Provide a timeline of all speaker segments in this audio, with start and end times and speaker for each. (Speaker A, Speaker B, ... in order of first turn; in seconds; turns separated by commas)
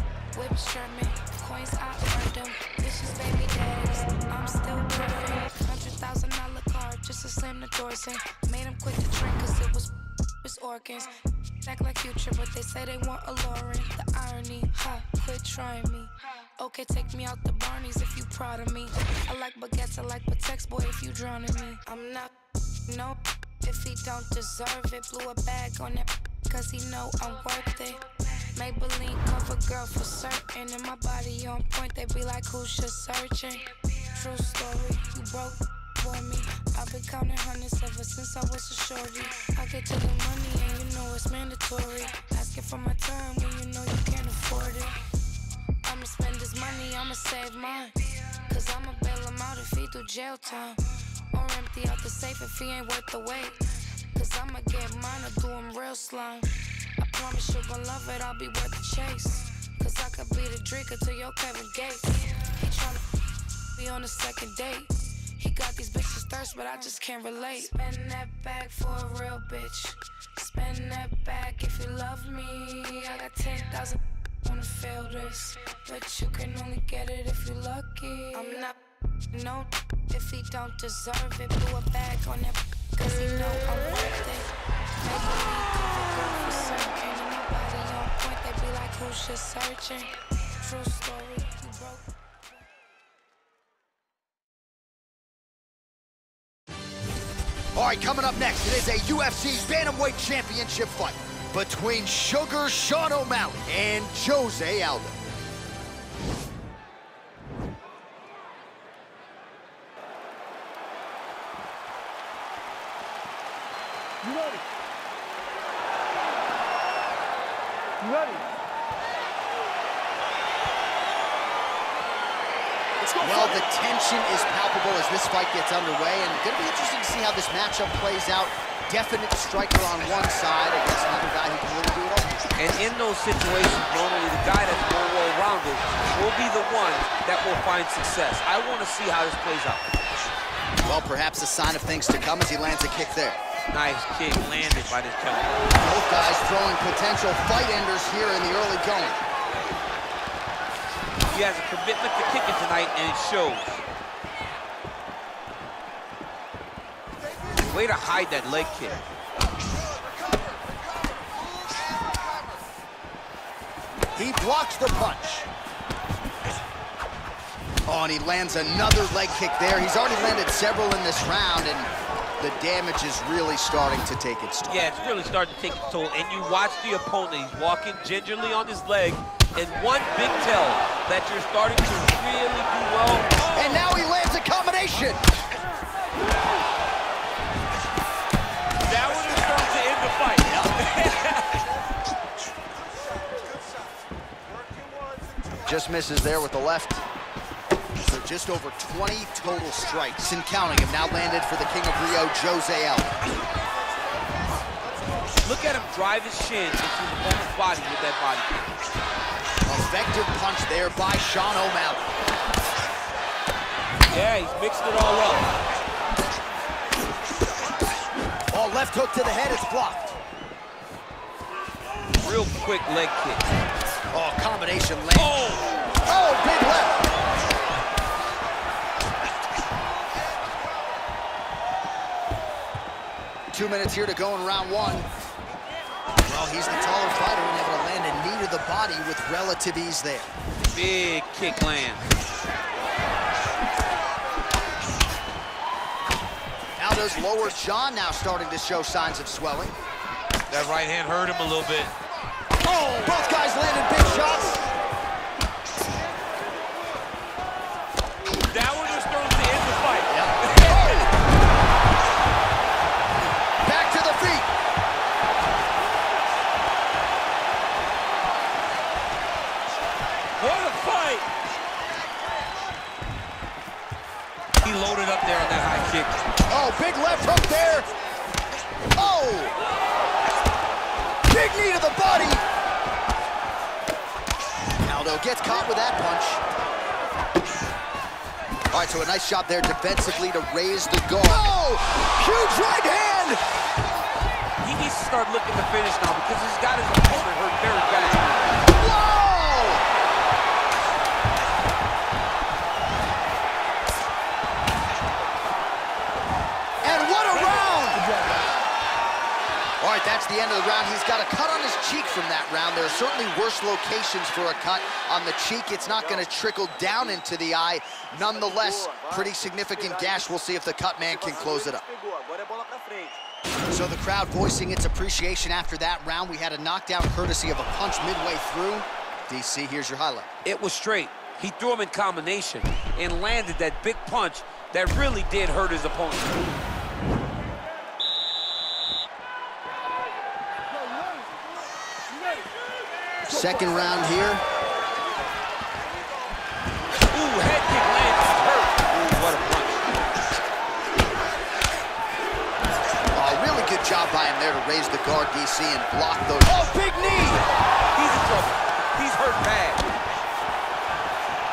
Speaker A: 0.3-22.3, Speaker A: 22.9-45.0, Speaker A: 45.8-53.6, Speaker A: 54.1-63.0, Speaker A: 63.8-78.8, Speaker A: 79.3-84.5, Speaker A: 85.0-92.0, Speaker B: 97.7-105.2, Speaker B: 123.0-132.2, Speaker C: 132.6-139.8, Speaker B: 140.8-143.4, Speaker C: 143.7-145.6, Speaker B: 145.8-149.2, Speaker C: 151.3-153.8, Speaker C: 157.7-159.0, Speaker B: 164.2-165.5, Speaker B: 167.9-174.8, Speaker C: 174.7-183.9, Speaker B: 183.5-185.2, Speaker C: 188.8-191.6, Speaker B: 190.4-190.7, Speaker B: 195.7-197.0, Speaker B: 198.0-203.1, Speaker C: 205.4-208.6, Speaker B: 209.7-212.0, Speaker C: 214.1-215.5, Speaker B: 218.5-220.2, Speaker C: 222.1-223.5, Speaker B: 224.1-225.5, Speaker C: 225.1-225.7, Speaker B: 226.1-227.0, Speaker B: 233.5-235.1, Speaker B: 236.2-240.3, Speaker C: 240.7-242.1, Speaker B: 246.8-249.7, Speaker C: 250.5-251.9, Speaker C: 252.6-253.1, Speaker B: 253.0-254.6, Speaker C: 258.4-261.1, Speaker B: 260.1-261.1, Speaker B: 263.6-264.5, Speaker C: 270.4-271.2, Speaker C: 274.6-276.1, Speaker B: 276.5-277.9, Speaker B: 278.9-279.5, Speaker B: 281.2-282.4, Speaker B: 284.9-286.4, Speaker B: 288.7-293.4, Speaker C: 294.6-298.4, Speaker B: 298.7-299.8, Speaker B: 306.8-308.1, Speaker B: 309.8-321.9, Speaker B: 323.7-330.3, Speaker C: 330.4-336.4, Speaker B: 343.2-344.4, Speaker C: 347.1-349.8, Speaker B: 353.1-357.4, Speaker C: 357.9-359.8